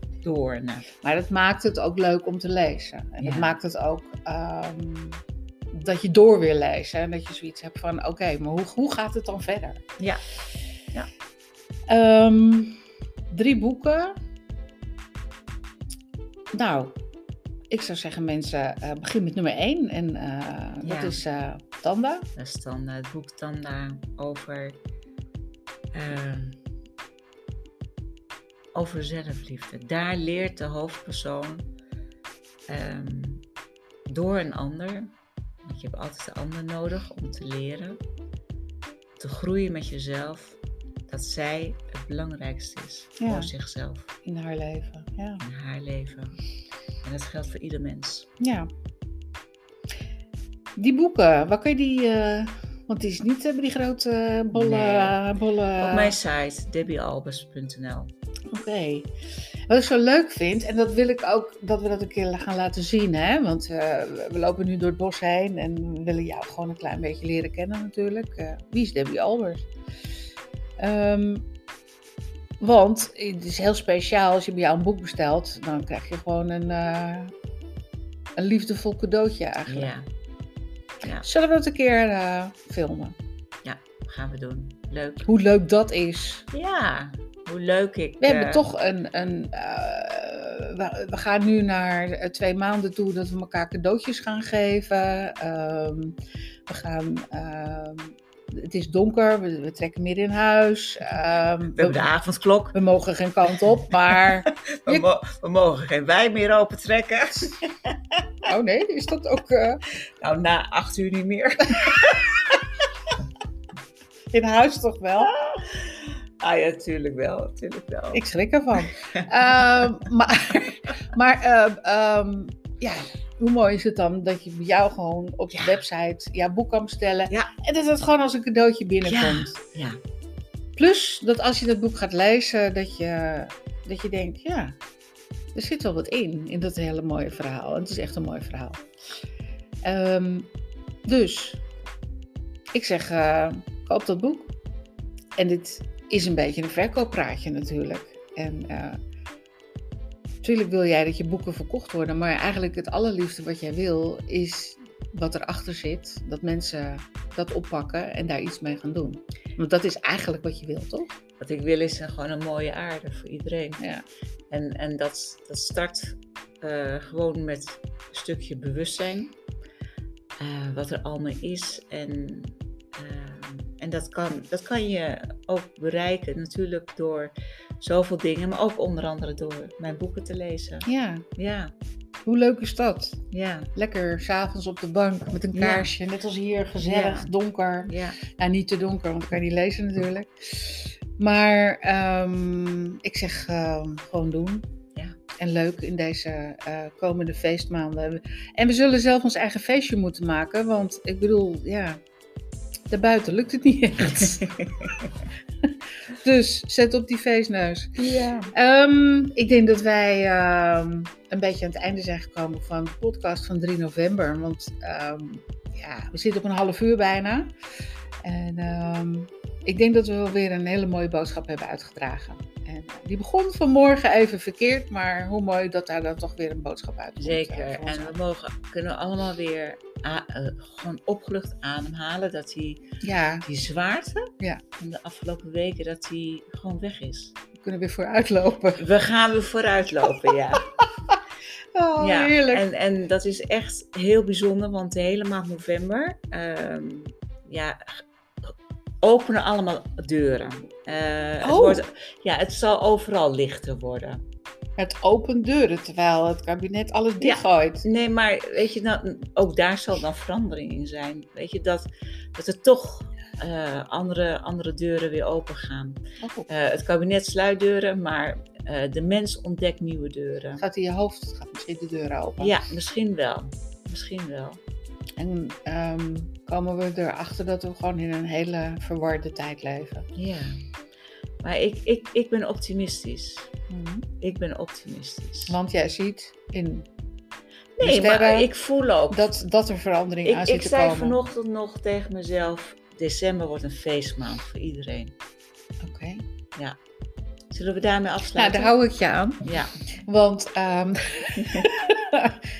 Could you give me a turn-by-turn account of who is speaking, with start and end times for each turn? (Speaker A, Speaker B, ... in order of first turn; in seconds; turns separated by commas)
Speaker A: 0.2-0.9, Speaker B: 1.0-9.8, Speaker A: 3.2-3.6, Speaker B: 11.9-14.2, Speaker B: 16.5-17.0, Speaker B: 17.7-22.3, Speaker A: 20.8-21.2, Speaker A: 22.4-24.8, Speaker A: 25.9-26.6, Speaker A: 28.7-31.7, Speaker A: 32.7-33.4, Speaker A: 34.1-38.0, Speaker A: 39.2-44.1, Speaker B: 43.2-43.5, Speaker B: 44.2-45.4, Speaker A: 45.4-46.4, Speaker A: 47.0-48.3, Speaker B: 48.4-48.7, Speaker B: 50.8-56.1, Speaker A: 54.5-55.2, Speaker A: 55.8-58.1, Speaker B: 58.5-59.1, Speaker B: 59.7-69.7, Speaker B: 70.8-71.5, Speaker B: 72.6-77.3, Speaker B: 78.4-79.9, Speaker A: 79.7-80.1, Speaker A: 81.0-81.3, Speaker B: 81.2-83.2, Speaker A: 83.6-85.3, Speaker B: 85.2-86.5, Speaker A: 86.5-88.6, Speaker B: 88.2-102.0, Speaker A: 101.7-102.8, Speaker B: 102.7-105.0, Speaker A: 103.7-108.5, Speaker B: 108.4-109.8, Speaker A: 110.0-113.2, Speaker B: 114.3-115.3, Speaker A: 115.2-118.2, Speaker B: 118.1-129.6, Speaker A: 118.9-119.9, Speaker A: 125.5-125.8, Speaker A: 129.0-130.0, Speaker B: 130.8-134.8, Speaker B: 135.5-138.8, Speaker B: 139.8-140.5, Speaker B: 141.1-141.6, Speaker B: 142.7-144.5, Speaker B: 145.4-149.0, Speaker B: 150.4-161.1, Speaker A: 161.4-163.8, Speaker B: 163.8-164.0, Speaker A: 164.5-169.4, Speaker A: 170.4-181.7, Speaker B: 180.8-181.2, Speaker B: 182.2-183.2, Speaker A: 183.3-183.7, Speaker B: 183.7-194.7, Speaker A: 185.5-185.9, Speaker A: 186.8-187.3, Speaker A: 187.8-188.2, Speaker B: 195.4-202.0, Speaker B: 202.9-204.7, Speaker A: 204.2-205.1, Speaker B: 206.1-217.5, Speaker A: 208.0-208.5, Speaker B: 218.2-228.1, Speaker A: 227.2-232.8, Speaker B: 233.0-233.4, Speaker A: 233.4-237.3, Speaker B: 237.6-238.8, Speaker A: 238.8-240.7, Speaker B: 240.8-241.2, Speaker B: 241.7-242.6, Speaker A: 242.0-254.2, Speaker B: 251.4-251.8, Speaker B: 254.8-257.9, Speaker A: 257.2-270.6, Speaker B: 266.2-266.5, Speaker B: 270.6-272.6, Speaker A: 272.4-274.6, Speaker B: 275.2-280.1, Speaker A: 280.1-280.6, Speaker A: 281.4-283.5, Speaker B: 283.7-284.1, Speaker A: 284.2-285.6, Speaker B: 285.5-286.9, Speaker A: 287.8-289.3, Speaker B: 287.8-288.5, Speaker B: 289.1-291.2, Speaker A: 290.2-295.1, Speaker B: 295.8-296.2, Speaker A: 297.5-298.7, Speaker B: 298.4-299.5, Speaker A: 299.4-299.7, Speaker B: 300.0-302.4, Speaker A: 301.4-301.7